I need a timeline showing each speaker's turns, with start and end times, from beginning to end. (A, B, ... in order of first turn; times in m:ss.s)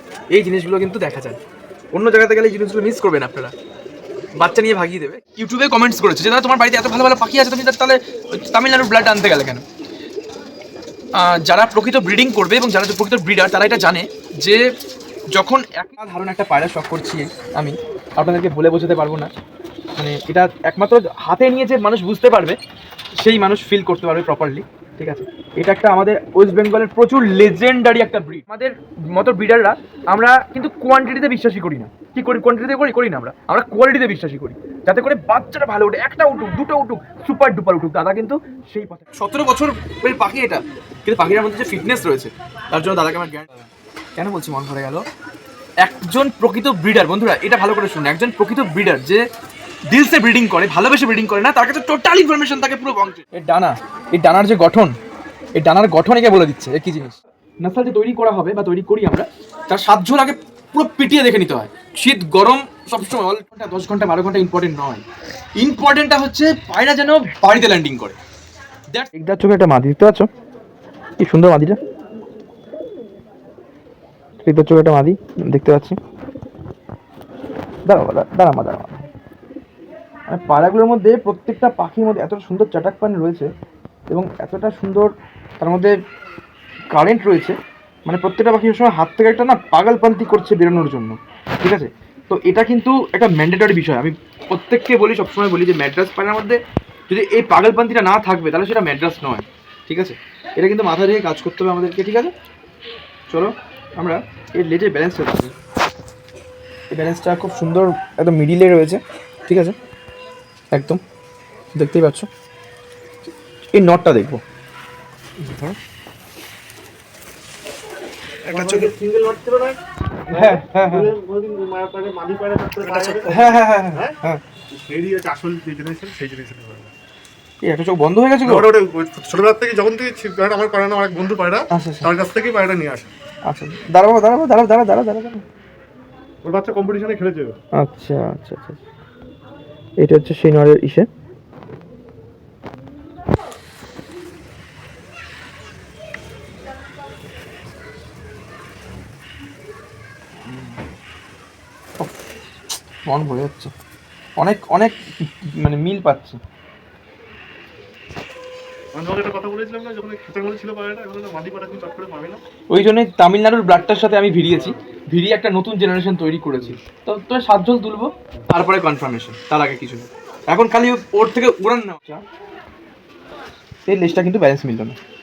0:00.3-0:01.4 A
0:01.9-0:03.5 A
0:04.4-0:09.6 A
0:11.2-0:14.6 A
0:15.3-0:19.3 A
0:20.0-0:22.6 A
0:23.2-0:45.0 A
0:45.8-0:49.2 A
0:49.9-0:55.0 A
0:55.6-1:05.0 A
1:05.6-1:08.2 A
1:08.9-1:10.3 A
1:11.2-1:11.8 A
1:14.4-1:16.0 A
1:17.9-1:19.1 A
1:20.3-1:23.5 A
1:24.1-1:26.0 A
1:26.9-1:42.3 A
1:43.3-1:45.6 A
1:46.9-1:49.8 A
1:50.7-1:51.0 A
1:51.8-1:52.3 A
1:53.7-1:54.4 A
1:55.4-1:55.8 A
1:58.4-2:04.2 B
1:58.5-1:58.9 A
2:00.3-2:01.1 A
2:03.1-2:04.4 A
2:04.7-2:06.9 B
2:07.6-2:08.7 A
2:08.4-2:13.1 B
2:11.7-2:12.1 A
2:13.5-2:15.4 A
2:16.4-2:17.6 B
2:17.7-2:18.8 A
2:20.0-2:21.1 A
2:33.0-2:33.7 A
2:34.4-2:36.4 A
2:38.9-2:42.4 B
2:42.7-2:52.2 A
2:44.5-2:44.8 B
2:53.9-2:55.0 A